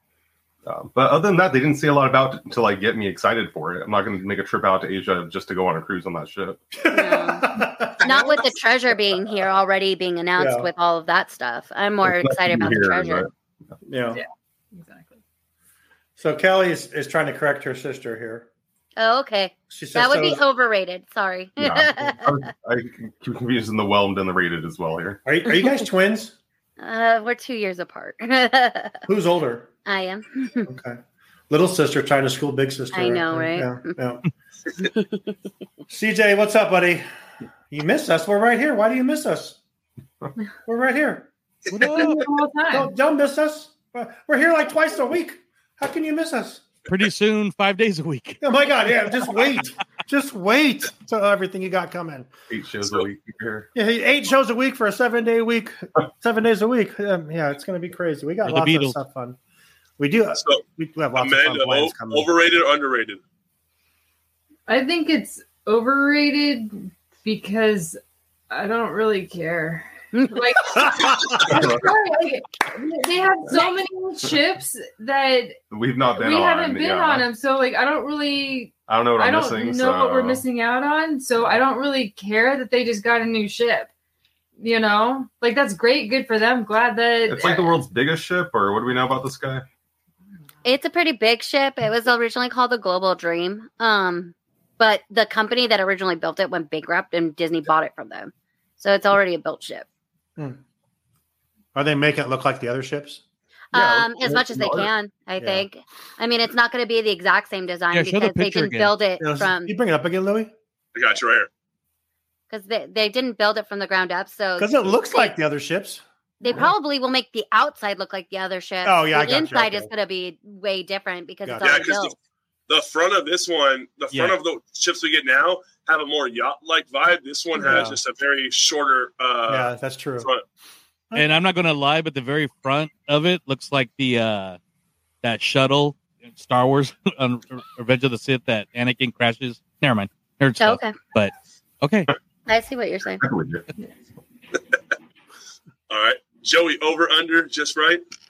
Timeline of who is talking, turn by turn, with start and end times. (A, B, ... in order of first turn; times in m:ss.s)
0:00.6-0:06.6 A
0:06.8-0:08.1 B
0:06.9-0:13.2 C
0:08.0-0:08.4 D
0:10.4-0:10.7 B
0:12.0-0:13.3 A
0:13.8-0:14.2 B
0:14.1-0:15.2 E
0:16.2-0:18.5 B
0:19.0-0:22.5 C
0:19.7-0:20.4 B
0:21.6-0:25.2 A
0:25.2-0:26.4 B
0:26.8-0:29.0 C
0:29.0-0:29.7 B
0:29.8-0:30.7 C
0:30.7-0:34.2 B
0:32.9-0:33.9 C
0:34.9-0:35.3 C
0:35.9-0:37.0 B
0:37.7-0:39.6 B
0:40.6-0:41.3 B
0:41.7-0:42.3 F
0:41.9-0:42.9 E
0:41.9-0:46.6 B
0:46.9-0:48.4 F
0:48.4-0:52.3 B
0:52.5-0:53.7 A
0:53.7-0:59.4 B
0:58.4-0:59.0 F
1:00.0-1:02.3 B
1:00.3-1:00.6 D
1:01.1-1:03.2 D
1:04.7-1:08.0 E
1:08.5-1:15.6 E
1:10.1-1:10.4 C
1:10.8-1:11.4 B
1:11.4-1:11.9 A
1:13.5-1:13.8 C
1:15.7-1:17.3 A
1:16.1-1:23.9 E
1:18.9-1:20.4 A
1:24.6-1:27.8 E
1:27.2-1:29.6 A
1:30.6-1:39.8 C
1:41.7-1:43.2 B
1:43.7-1:49.7 C
1:43.7-1:44.0 B
1:43.8-1:44.9 A
1:45.4-1:45.6 B
1:47.9-1:48.9 F
1:49.2-1:50.5 B
1:50.9-1:51.5 D
1:52.5-1:55.3 C
1:54.6-1:56.7 B
1:56.4-2:02.1 C
1:58.8-1:59.9 B
2:01.4-2:01.8 B
2:01.6-2:02.1 D
2:02.7-2:10.4 D
2:04.1-2:04.4 F
2:07.6-2:08.0 B
2:09.5-2:10.3 B
2:11.1-2:14.6 F
2:15.2-2:22.1 F
2:20.6-2:21.0 C
2:22.5-2:23.2 C
2:23.2-2:23.7 A
2:25.9-2:28.0 D